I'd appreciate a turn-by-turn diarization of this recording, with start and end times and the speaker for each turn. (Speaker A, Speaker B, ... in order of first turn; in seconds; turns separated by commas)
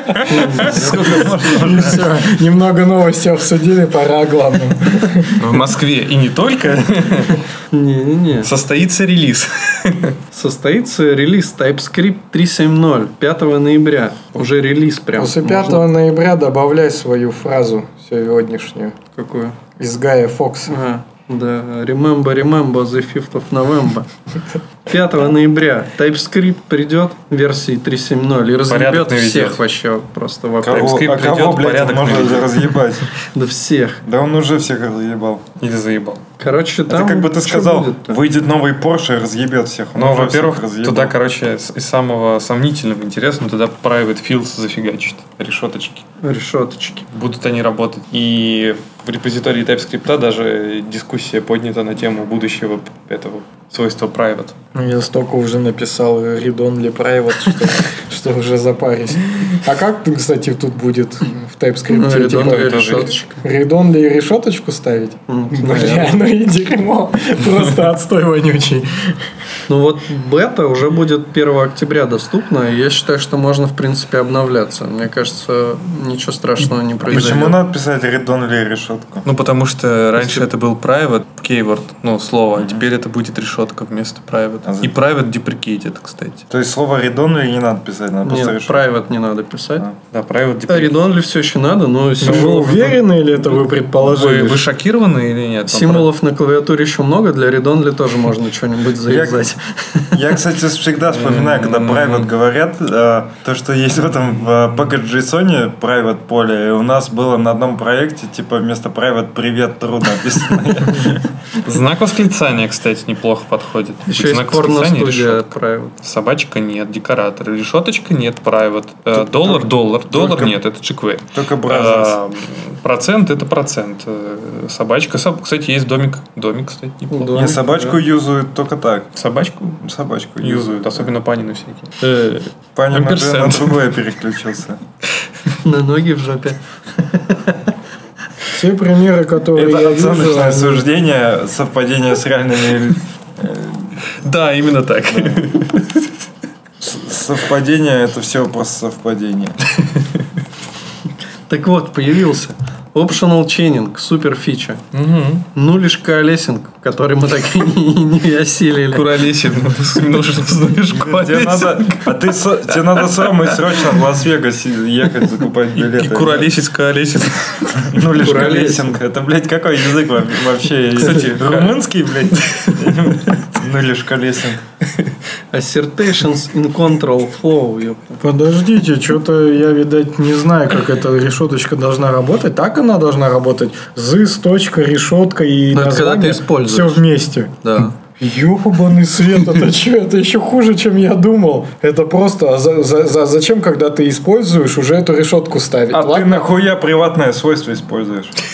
Speaker A: 0.2-1.3, Speaker B: 0.5-2.1, Speaker C: 0.7-1.7, Speaker D: 1.4-5.4, Speaker C: 5.4-7.4, Speaker A: 7.7-8.5, Speaker C: 8.4-10.2, Speaker A: 10.3-15.8, Speaker D: 15.2-19.0, Speaker A: 19.2-19.6, Speaker D: 19.8-20.8, Speaker A: 20.7-24.1, Speaker A: 24.9-31.0, Speaker C: 28.7-29.6, Speaker B: 30.6-33.1, Speaker C: 30.7-32.7, Speaker A: 33.3-34.0, Speaker B: 34.0-35.5, Speaker C: 35.6-36.3, Speaker A: 36.4-38.2, Speaker B: 36.9-41.1, Speaker C: 40.0-46.1, Speaker A: 46.2-47.1, Speaker C: 47.1-54.6, Speaker D: 54.8-69.1, Speaker A: 61.9-63.4, Speaker C: 62.3-63.2, Speaker A: 65.3-66.2, Speaker A: 69.7-77.6, Speaker B: 77.1-79.3, Speaker C: 79.2-86.5, Speaker A: 80.2-80.5, Speaker B: 82.6-82.8, Speaker B: 84.6-84.9, Speaker B: 86.5-88.8, Speaker A: 88.2-89.9, Speaker C: 90.1-91.1, Speaker A: 90.7-93.0, Speaker D: 92.2-94.7, Speaker C: 93.5-96.1, Speaker A: 95.7-100.2, Speaker B: 99.0-99.5, Speaker B: 100.1-111.2, Speaker C: 101.1-102.3, Speaker C: 111.6-127.4, Speaker A: 114.1-116.0, Speaker B: 119.2-120.6, Speaker B: 121.3-122.2, Speaker A: 127.1-128.0, Speaker B: 127.3-129.1, Speaker C: 129.2-129.8, Speaker B: 129.8-131.1, Speaker C: 130.4-133.8, Speaker B: 132.8-134.8, Speaker A: 135.6-137.7, Speaker D: 138.5-140.8, Speaker B: 139.5-144.0, Speaker C: 144.2-146.1, Speaker B: 145.1-145.6, Speaker B: 146.8-149.6, Speaker A: 151.5-154.8, Speaker C: 154.9-155.4, Speaker A: 155.6-159.2, Speaker C: 158.9-163.8, Speaker B: 160.9-166.5, Speaker C: 165.8-167.9, Speaker B: 167.8-174.6, Speaker A: 168.2-169.0, Speaker C: 171.0-171.8, Speaker C: 172.3-173.1, Speaker A: 175.5-178.2, Speaker D: 178.2-187.6, Speaker A: 185.7-187.0, Speaker A: 187.6-188.0, Speaker D: 188.2-196.5, Speaker B: 195.9-198.4